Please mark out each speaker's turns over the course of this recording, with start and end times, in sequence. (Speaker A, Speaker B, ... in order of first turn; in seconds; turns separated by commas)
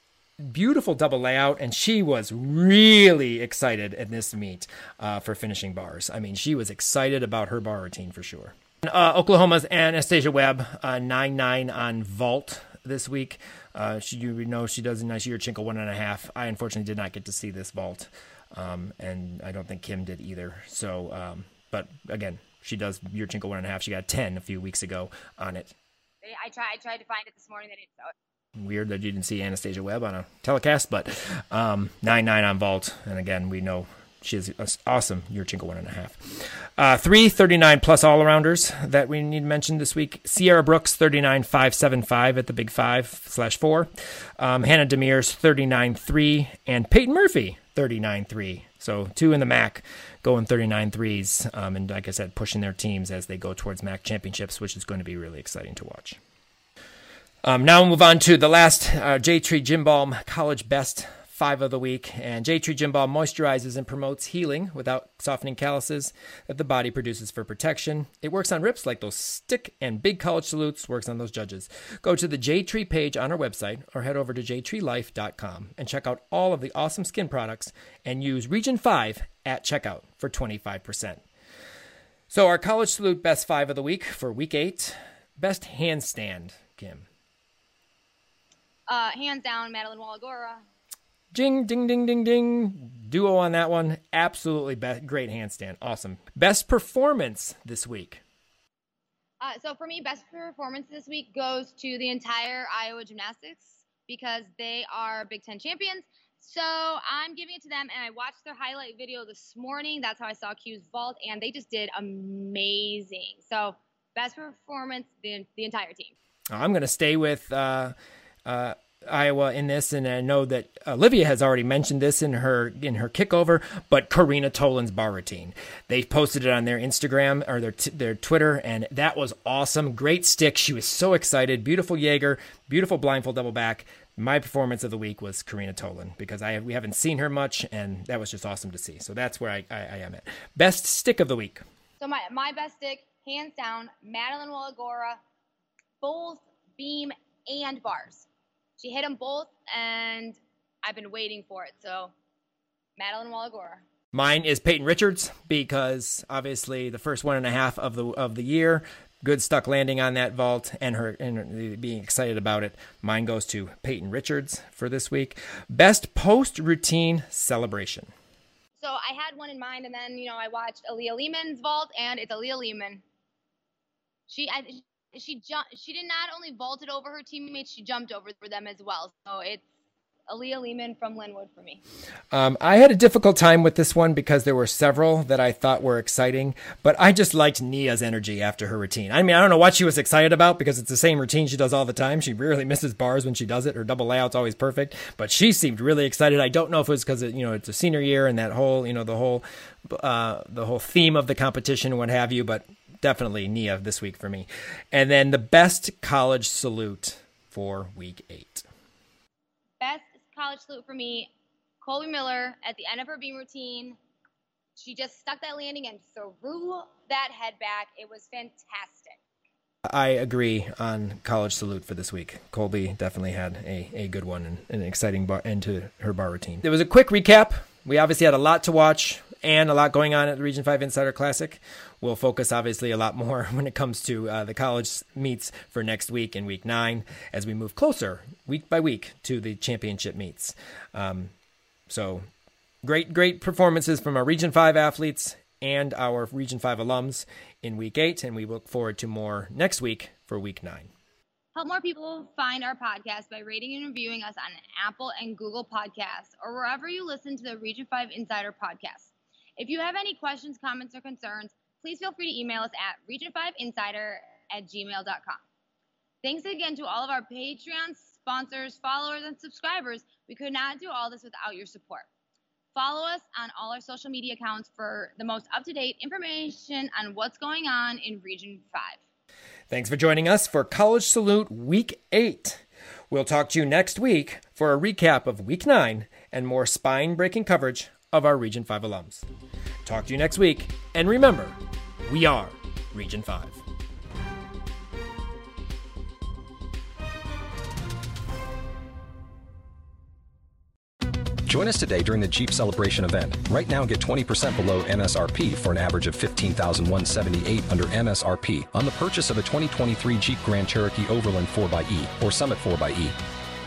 Speaker A: 0.4-25.8, Speaker B: 26.2-28.1, Speaker A: 28.6-56.2, Speaker A: 57.4-81.2, Speaker A: 82.3-87.1, Speaker B: 88.9-90.6, Speaker A: 91.3-98.2, Speaker B: 99.4-116.1, Speaker A: 116.5-141.6, Speaker B: 142.0-145.2, Speaker B: 146.0-148.3, Speaker B: 148.8-152.1, Speaker B: 153.0-153.8, Speaker A: 154.1-168.1, Speaker B: 168.8-173.0, Speaker B: 174.3-179.6, Speaker B: 180.3-181.8, Speaker A: 182.3-208.7, Speaker B: 209.8-211.3, Speaker B: 211.8-214.0, Speaker B: 214.8-219.2, Speaker A: 219.9-241.3, Speaker A: 241.9-242.2, Speaker A: 242.8-250.9, Speaker B: 251.6-265.4, Speaker B: 266.2-272.1, Speaker B: 272.7-279.0, Speaker A: 279.7-289.3, Speaker A: 289.9-293.6, Speaker C: 301.5-313.2